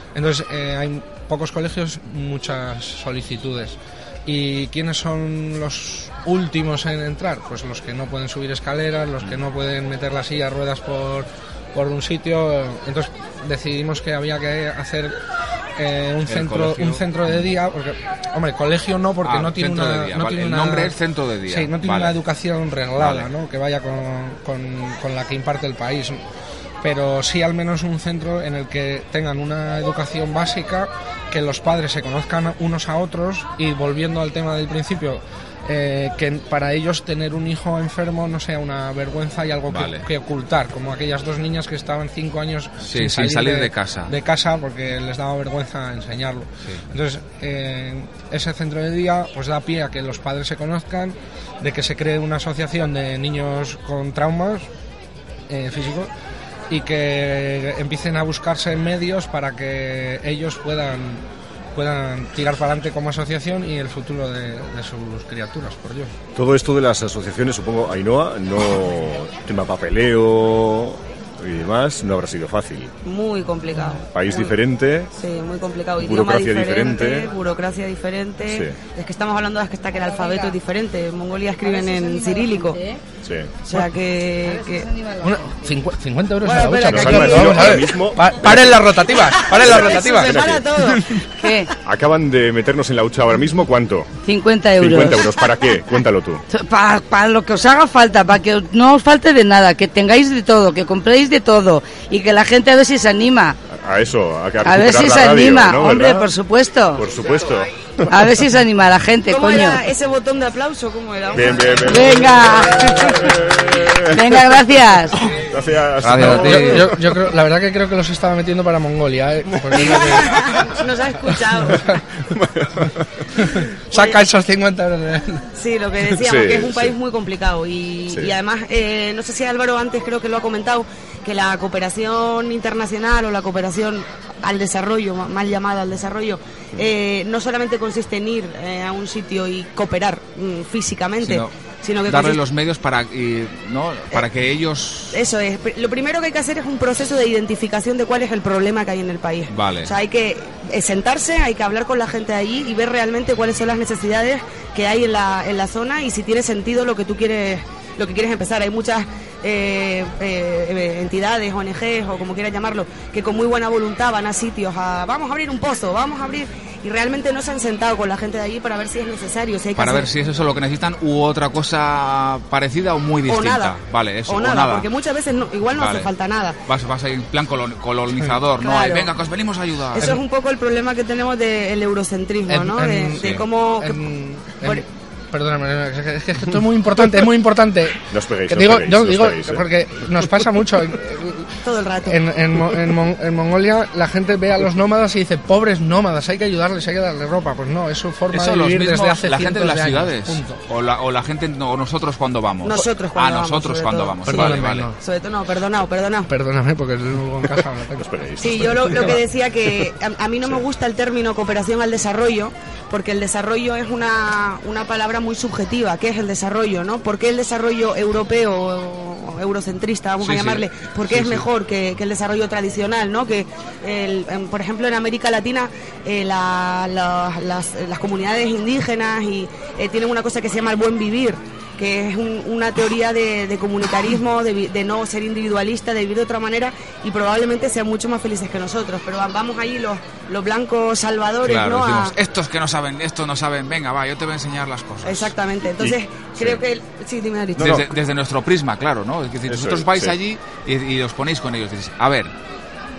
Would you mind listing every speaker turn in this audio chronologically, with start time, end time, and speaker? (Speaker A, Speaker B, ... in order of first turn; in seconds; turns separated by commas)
Speaker A: 0.1-15.1, Speaker A: 15.8-20.9, Speaker B: 16.2-17.4, Speaker B: 19.2-22.1, Speaker A: 21.5-26.2, Speaker B: 23.0-23.3, Speaker A: 26.8-54.7, Speaker B: 39.7-40.0, Speaker B: 42.8-44.1, Speaker A: 55.5-56.1, Speaker A: 56.7-61.2, Speaker A: 61.7-66.1, Speaker C: 66.3-72.9, Speaker D: 73.0-74.5, Speaker C: 74.1-75.1, Speaker D: 75.1-82.8, Speaker C: 76.0-77.3, Speaker C: 78.5-78.8, Speaker C: 83.2-83.5, Speaker D: 83.7-84.9, Speaker A: 85.2-91.2, Speaker D: 86.4-87.8, Speaker C: 86.9-88.7, Speaker D: 89.4-91.2, Speaker C: 89.5-90.7, Speaker E: 91.4-91.7, Speaker C: 91.8-94.1, Speaker E: 94.2-95.3, Speaker C: 94.8-96.4, Speaker E: 96.5-103.6, Speaker C: 103.7-106.3, Speaker E: 104.6-107.0, Speaker C: 107.0-108.1, Speaker E: 108.1-109.8, Speaker D: 109.3-112.0, Speaker C: 111.3-114.2, Speaker E: 111.9-113.1, Speaker E: 114.1-115.2, Speaker C: 115.3-117.0, Speaker B: 116.0-116.9, Speaker A: 116.1-120.7, Speaker D: 119.7-121.9, Speaker C: 122.3-122.9, Speaker A: 123.4-125.5, Speaker D: 123.9-124.2, Speaker D: 125.5-142.4, Speaker C: 126.2-126.9, Speaker B: 141.2-141.5, Speaker B: 142.1-145.2, Speaker D: 145.1-170.1, Speaker B: 149.5-149.9, Speaker B: 169.8-174.9, Speaker D: 173.2-173.7, Speaker D: 174.2-176.6, Speaker B: 175.7-176.1, Speaker B: 176.7-180.2, Speaker D: 178.6-179.1, Speaker D: 179.9-184.0, Speaker A: 182.5-200.6, Speaker C: 188.1-189.6, Speaker D: 191.6-192.2, Speaker B: 198.3-204.9, Speaker D: 202.6-206.3, Speaker A: 204.3-204.9, Speaker A: 206.3-209.1, Speaker C: 208.0-209.3, Speaker D: 208.4-242.1, Speaker B: 220.2-221.4, Speaker B: 241.4-245.3, Speaker D: 245.0-247.8, Speaker C: 245.8-246.6, Speaker C: 247.6-247.8, Speaker B: 247.6-252.3, Speaker C: 249.5-250.1